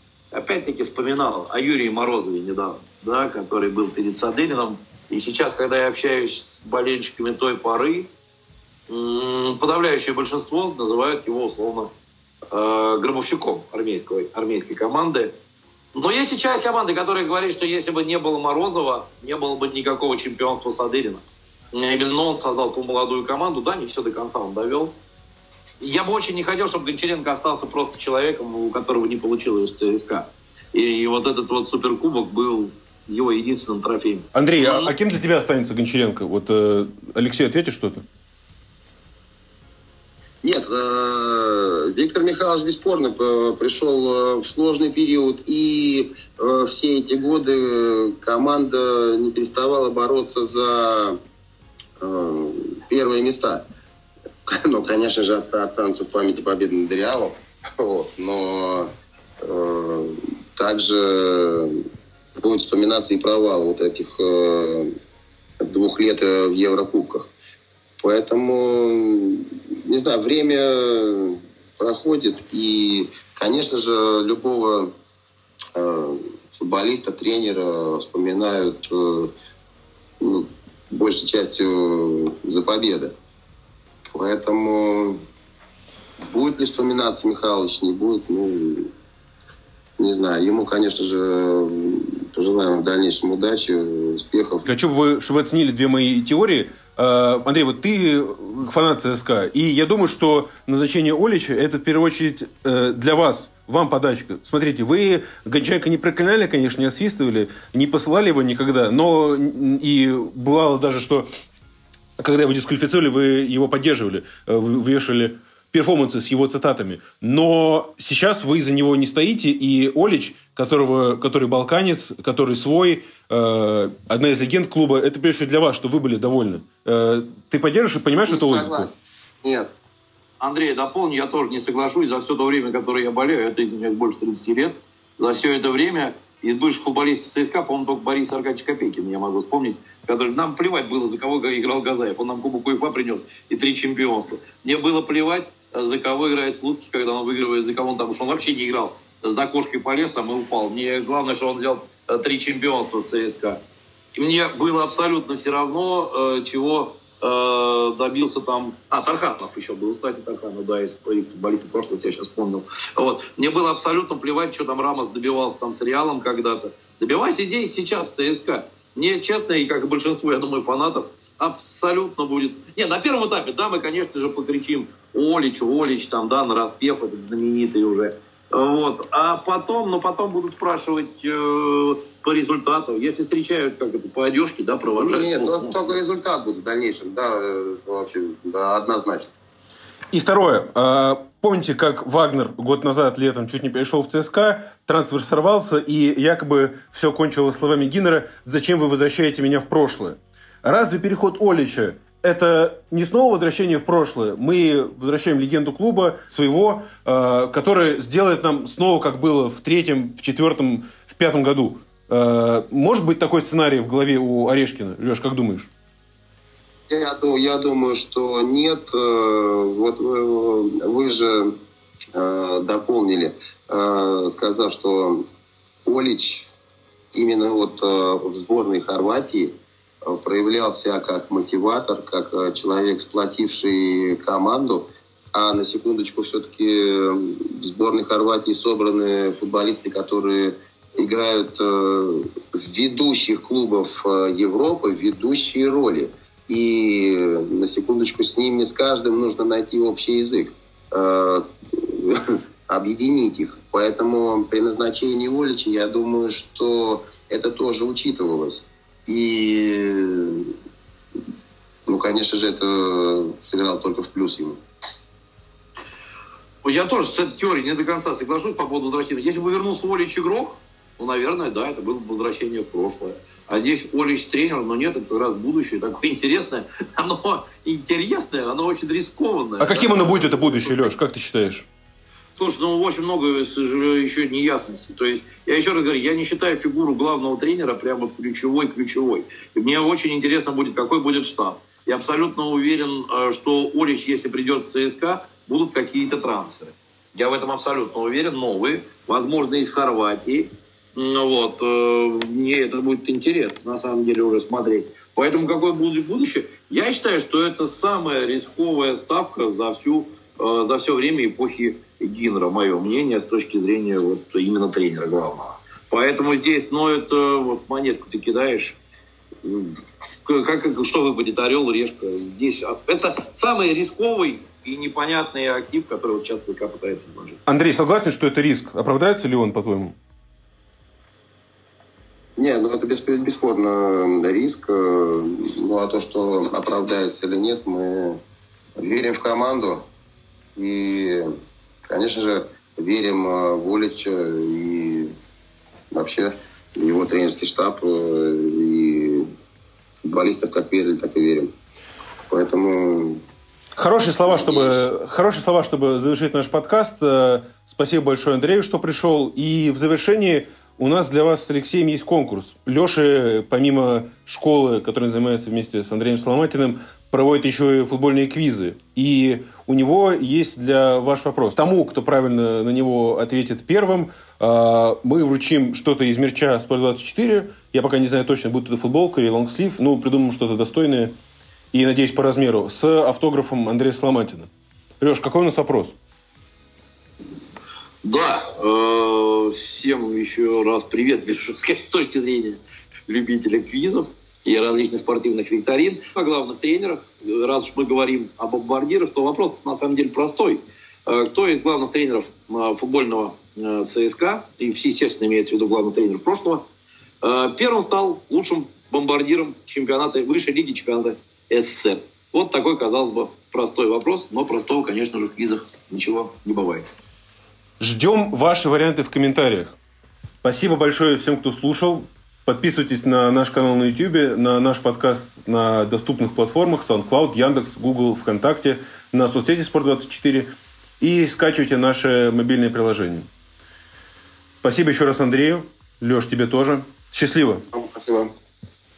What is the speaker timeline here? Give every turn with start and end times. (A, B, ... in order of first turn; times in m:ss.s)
0:00.3-0:08.1 A
0:08.9-0:11.9 A
0:12.5-0:15.3 A
0:16.0-0:24.9 A
0:25.8-0:34.9 A
0:34.3-0:38.0 B
0:40.4-0:51.2 C
0:52.0-0:53.6 C
0:54.5-1:01.8 C
1:02.4-1:04.9 C
1:05.6-1:07.3 C
1:08.0-1:14.9 C
1:15.8-1:19.3 C
1:20.2-1:23.1 C
1:24.0-1:25.2 C
1:26.2-1:28.9 C
1:30.0-1:34.6 C
1:34.6-1:51.3 B
1:52.2-2:08.9 B
2:08.3-2:09.7 C
2:10.4-2:33.6 A
2:34.2-3:05.8 A
3:05.0-3:09.3 C
3:10.1-3:35.7 B
3:36.9-3:41.5 C
3:42.2-3:45.2 C
3:45.8-3:46.5 C
3:47.1-3:49.5 C
3:50.0-4:20.5 C
4:21.9-4:24.6 C
4:26.6-4:40.7 A
4:39.6-4:41.7 B
4:42.4-5:18.8 A
5:19.4-5:27.4 A
5:27.5-5:30.0 B
5:32.4-5:38.2 C
5:38.8-5:39.8 C
5:40.6-5:41.3 C
5:41.9-5:45.1 C
5:45.9-5:49.3 C
5:50.0-5:51.5 C
5:52.3-5:53.2 C
5:53.8-6:21.1 B
5:54.3-5:54.9 C
6:21.7-6:24.5 B
6:25.0-6:26.0 B
6:28.0-6:46.6 A
6:47.2-6:56.9 A
6:57.8-6:59.8 B
7:00.4-7:13.3 B
7:14.6-7:17.6 B
7:17.7-7:18.3 C